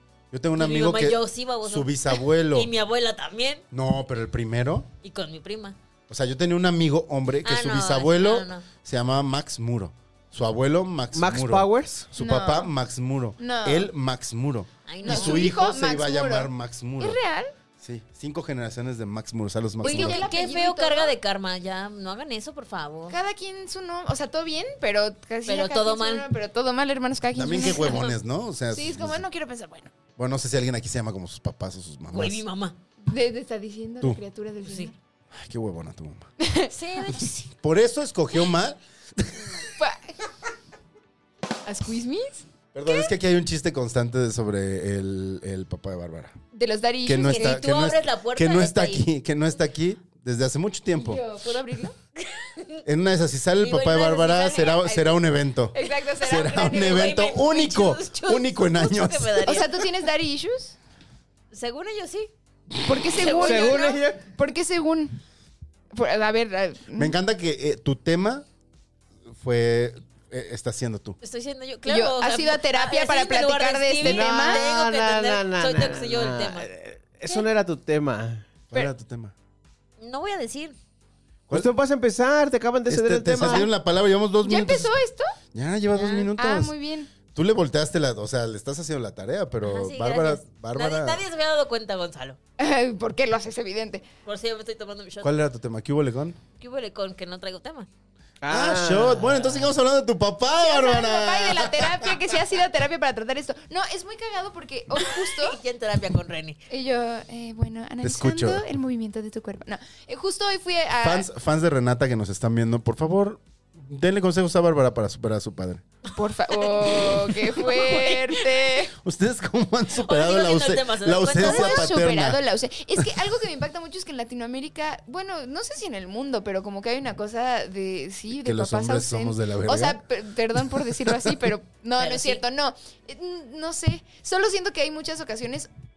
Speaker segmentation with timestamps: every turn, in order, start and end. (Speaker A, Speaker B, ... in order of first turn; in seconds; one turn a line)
Speaker A: 0.3-2.7
Speaker B: 0.6-3.6
Speaker A: 3.7-4.9
Speaker B: 5.0-5.8
Speaker A: 6.1-17.2
Speaker B: 7.4-8.7
Speaker C: 11.1-12.0
Speaker D: 12.2-12.7
Speaker D: 13.4-13.9
Speaker B: 14.9-15.5
Speaker D: 15.0-17.5
Speaker A: 17.8-20.3
Speaker D: 19.8-21.1
Speaker B: 19.8-23.1
Speaker D: 23.1-28.1
Speaker B: 25.5-26.2
Speaker A: 27.3-29.2
Speaker D: 28.7-29.9
Speaker A: 30.2-32.4
Speaker B: 32.1-32.8
Speaker D: 33.0-35.0
Speaker B: 34.6-34.9
Speaker A: 35.3-36.3
Speaker D: 36.4-36.7
Speaker B: 36.7-37.5
Speaker A: 37.5-39.6
Speaker D: 39.8-40.1
Speaker D: 41.6-43.1
Speaker A: 42.7-46.4
Speaker D: 46.5-47.6
Speaker A: 47.0-51.2
Speaker B: 47.3-49.0
Speaker D: 51.0-51.9
Speaker B: 52.1-52.8
Speaker A: 52.8-59.7
Speaker B: 53.6-54.8
Speaker D: 54.8-55.2
Speaker D: 55.7-57.2
Speaker B: 56.5-59.8
Speaker D: 59.4-60.8
Speaker B: 61.5-62.3
Speaker D: 62.8-65.2
Speaker B: 63.2-64.0
Speaker C: 63.4-64.2
Speaker D: 65.9-67.2
Speaker A: 67.0-68.5
Speaker A: 69.3-71.2
Speaker B: 71.2-76.7
Speaker D: 71.8-74.6
Speaker C: 74.0-78.4
Speaker A: 78.7-79.3
Speaker B: 80.0-80.8
Speaker C: 81.5-83.7
Speaker A: 82.9-84.9
Speaker D: 83.4-83.7
Speaker D: 84.4-85.3
Speaker A: 85.5-86.7
Speaker B: 86.0-86.3
Speaker D: 86.4-87.1
Speaker A: 87.3-91.2
Speaker B: 89.6-92.4
Speaker D: 92.6-94.0
Speaker B: 94.2-95.3
Speaker A: 95.2-96.4
Speaker B: 96.6-97.9
Speaker C: 98.4-99.7
Speaker A: 98.5-102.3
Speaker D: 100.6-105.6
Speaker B: 105.0-106.6
Speaker D: 106.7-111.3
Speaker A: 108.0-108.6
Speaker A: 111.0-115.8
Speaker D: 116.1-118.9
Speaker B: 116.5-118.6
Speaker A: 119.0-122.4
Speaker B: 120.0-121.9
Speaker D: 121.4-135.7
Speaker A: 128.3-130.0
Speaker A: 130.8-131.4
Speaker B: 132.0-132.4